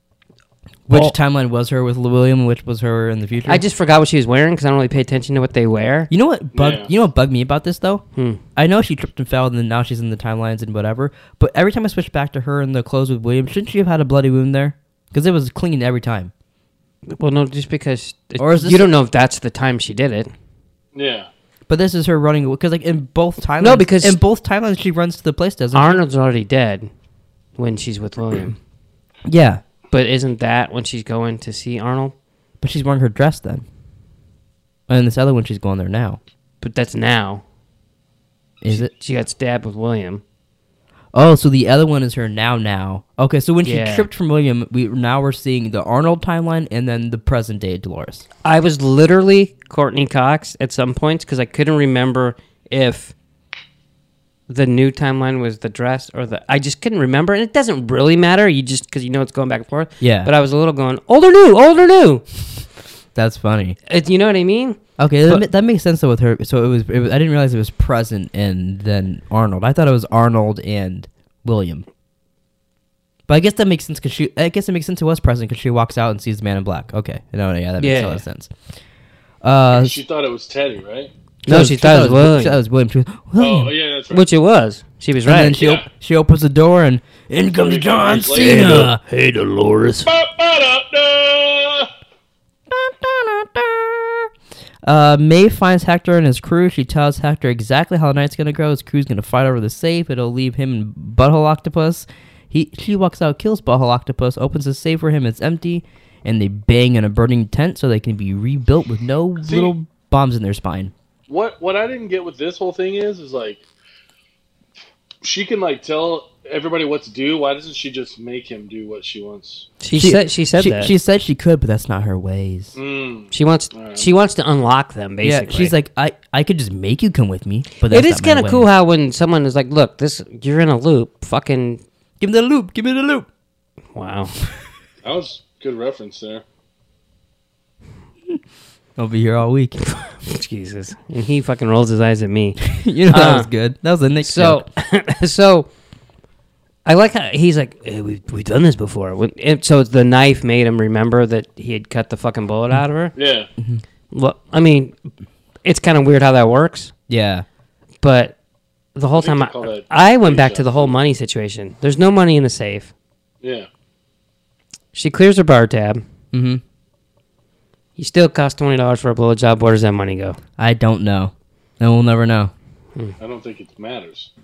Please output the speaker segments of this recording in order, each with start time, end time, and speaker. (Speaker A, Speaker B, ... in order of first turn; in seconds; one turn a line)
Speaker A: 0.9-3.6
Speaker B: 0.9-1.1
Speaker B: 3.5-6.1
Speaker A: 6.1-8.0
Speaker C: 6.5-6.9
Speaker B: 8.1-8.4
Speaker A: 8.6-16.3
Speaker B: 17.1-20.3
Speaker A: 18.4-18.9
Speaker C: 20.9-21.3
Speaker A: 21.7-26.0
Speaker B: 23.6-24.2
Speaker B: 25.7-26.9
Speaker B: 27.6-28.6
Speaker A: 29.2-29.6
Speaker B: 29.9-32.1
Speaker A: 32.6-33.6
Speaker A: 34.9-36.2
Speaker B: 36.6-37.4
Speaker A: 38.6-38.9
Speaker B: 38.7-40.2
Speaker A: 41.1-48.2
Speaker B: 43.6-44.1
Speaker B: 48.4-53.1
Speaker B: 54.5-62.5
Speaker A: 60.0-60.3
Speaker A: 63.1-63.8
Speaker B: 63.9-65.4
Speaker A: 65.0-71.8
Speaker A: 73.3-78.5
Speaker B: 77.8-78.2
Speaker A: 79.4-80.0
Speaker C: 79.7-81.1
Speaker B: 81.5-82.6
Speaker A: 81.5-83.7
Speaker C: 83.4-84.2
Speaker B: 84.1-85.6
Speaker A: 85.2-89.0
Speaker C: 85.6-85.8
Speaker C: 87.5-88.8
Speaker B: 88.3-90.1
Speaker C: 90.0-91.9
Speaker A: 92.7-94.3
Speaker A: 94.8-110.9
Speaker C: 109.4-109.7
Speaker C: 111.3-113.6
Speaker C: 115.2-119.7
Speaker B: 119.8-120.9
Speaker A: 119.9-122.7
Speaker C: 122.8-124.1
Speaker B: 123.3-125.7
Speaker A: 125.2-128.7
Speaker B: 127.9-131.8
Speaker A: 132.2-133.3
Speaker B: 133.9-134.3
Speaker C: 135.0-136.4
Speaker A: 139.0-139.8
Speaker B: 139.8-142.6
Speaker A: 142.6-144.6
Speaker B: 143.1-143.5
Speaker B: 144.2-145.7
Speaker B: 146.8-153.1
Speaker C: 153.2-153.5
Speaker B: 154.1-154.9
Speaker B: 155.6-156.9
Speaker A: 157.1-157.4
Speaker B: 158.0-158.3
Speaker B: 158.9-162.9
Speaker C: 159.2-160.9
Speaker C: 163.4-163.7
Speaker B: 164.9-166.0
Speaker A: 166.3-166.6
Speaker B: 168.0-170.4
Speaker A: 170.6-172.5
Speaker C: 173.2-174.3